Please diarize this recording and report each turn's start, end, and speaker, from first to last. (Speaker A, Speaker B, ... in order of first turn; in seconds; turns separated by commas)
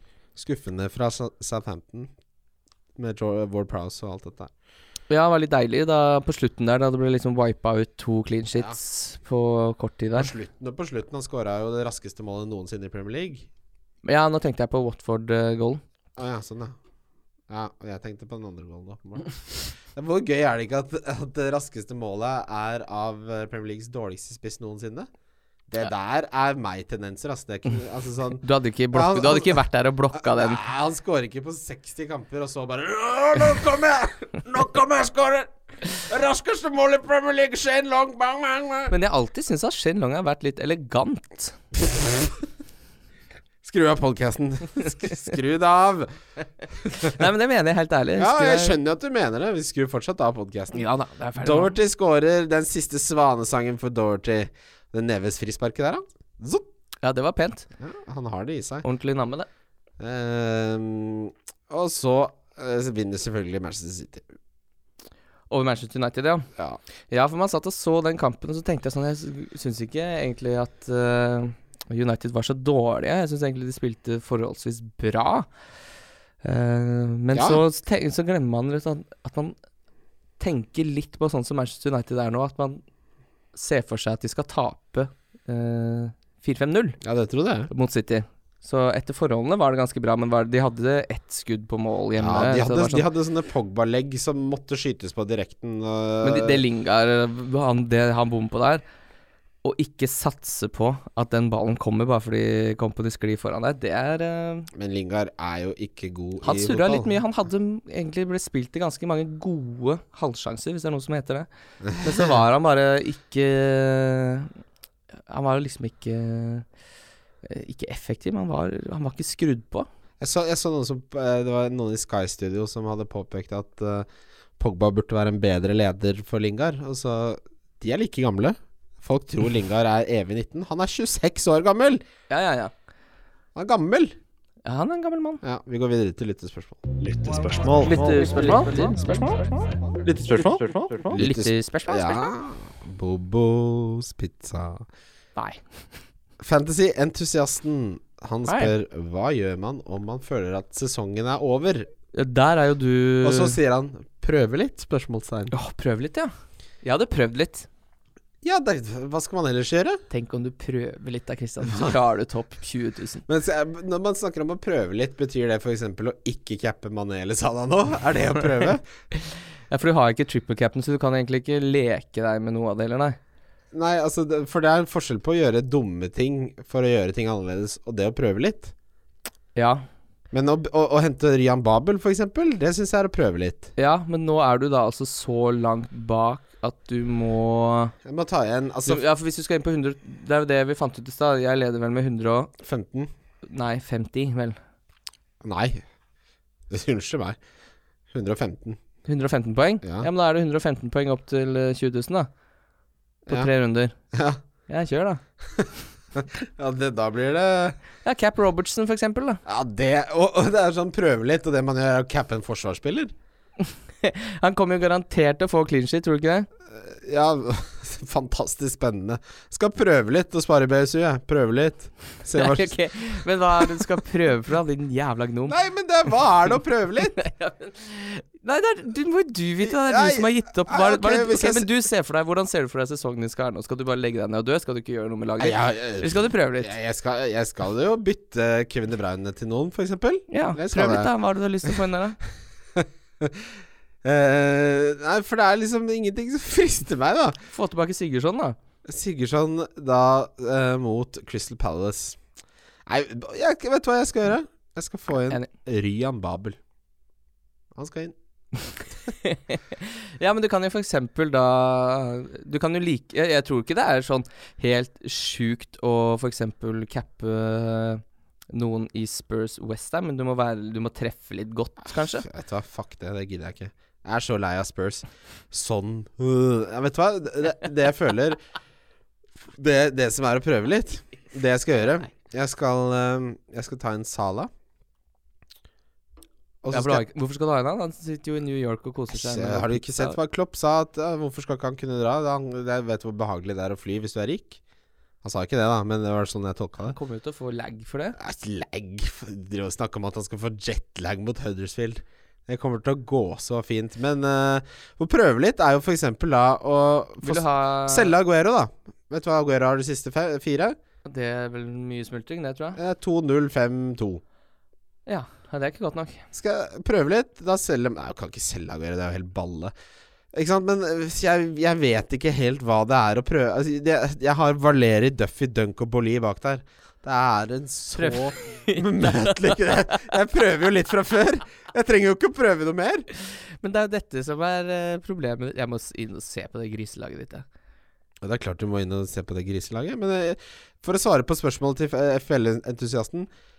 Speaker A: 0.4-2.1, Speaker A: 3.0-4.5, Speaker B: 5.1-10.3, Speaker A: 10.2-13.5, Speaker B: 14.1-15.8, Speaker A: 16.2-16.8, Speaker A: 17.5-25.1, Speaker A: 25.7-29.6, Speaker B: 28.4-30.6, Speaker A: 30.1-38.9, Speaker B: 38.9-41.6, Speaker A: 41.9-42.2, Speaker A: 43.6-46.1, Speaker B: 46.9-48.8, Speaker A: 48.2-50.9, Speaker B: 50.7-51.7, Speaker A: 51.4-56.7, Speaker B: 57.0-57.7, Speaker A: 57.8-58.9, Speaker B: 58.8-59.5, Speaker A: 60.0-64.3, Speaker B: 65.5-66.5, Speaker B: 67.1-75.5, Speaker B: 76.4-79.5, Speaker A: 77.3-77.6, Speaker B: 80.4-82.8, Speaker B: 83.5-87.0, Speaker A: 87.0-87.7, Speaker B: 87.7-93.1, Speaker A: 92.2-96.6, Speaker B: 96.2-98.8, Speaker B: 99.6-104.7, Speaker A: 104.7-107.1, Speaker B: 106.4-114.5, Speaker A: 111.9-112.3, Speaker B: 115.3-116.7, Speaker B: 117.4-119.9, Speaker A: 120.2-124.1, Speaker A: 124.6-132.0, Speaker B: 132.3-132.7, Speaker A: 133.6-134.2, Speaker B: 134.7-135.4, Speaker A: 135.4-137.1, Speaker C: 137.0-138.9, Speaker B: 137.8-139.3, Speaker C: 140.0-141.1, Speaker A: 140.1-144.9, Speaker B: 141.1-142.3, Speaker B: 145.4-145.6, Speaker A: 146.4-151.9, Speaker B: 148.5-148.7, Speaker B: 152.1-153.6, Speaker A: 153.2-155.5, Speaker B: 155.5-156.3, Speaker B: 156.8-157.7, Speaker A: 158.4-160.0, Speaker B: 160.1-163.2, Speaker A: 161.6-161.9, Speaker A: 163.3-168.8, Speaker B: 169.7-173.2, Speaker A: 173.7-178.7, Speaker B: 179.6-179.8, Speaker A: 180.3-183.7, Speaker B: 183.8-187.9, Speaker A: 188.1-189.0, Speaker B: 188.9-192.5, Speaker A: 192.6-193.1, Speaker B: 193.5-194.6, Speaker A: 195.4-195.8, Speaker A: 196.7-197.4, Speaker A: 198.1-198.8, Speaker B: 199.1-202.3, Speaker B: 203.3-203.9, Speaker A: 204.1-204.4, Speaker B: 204.7-205.2, Speaker A: 206.2-207.8, Speaker B: 208.0-209.4, Speaker A: 209.4-213.1, Speaker B: 213.6-216.5, Speaker A: 216.7-222.8, Speaker B: 222.3-225.6, Speaker A: 225.5-227.2, Speaker B: 227.2-236.7, Speaker A: 229.6-231.7, Speaker A: 235.4-241.1, Speaker B: 240.3-242.2, Speaker A: 242.8-243.5, Speaker A: 244.0-247.4, Speaker B: 247.5-248.6, Speaker A: 248.9-252.2, Speaker A: 252.9-256.6, Speaker A: 257.8-258.1, Speaker B: 259.1-272.3, Speaker A: 272.0-278.4, Speaker A: 279.5-284.5, Speaker A: 286.6-287.1, Speaker B: 286.7-290.2, Speaker A: 289.1-294.6, Speaker A: 295.2-297.0, Speaker B: 296.9-298.2, Speaker A: 298.2-310.8, Speaker B: 307.2-308.1, Speaker B: 311.1-312.8, Speaker A: 312.8-314.2, Speaker B: 315.1-316.3, Speaker A: 316.3-319.7, Speaker A: 320.3-333.1, Speaker B: 328.0-329.7, Speaker B: 333.3-337.4, Speaker A: 338.2-343.3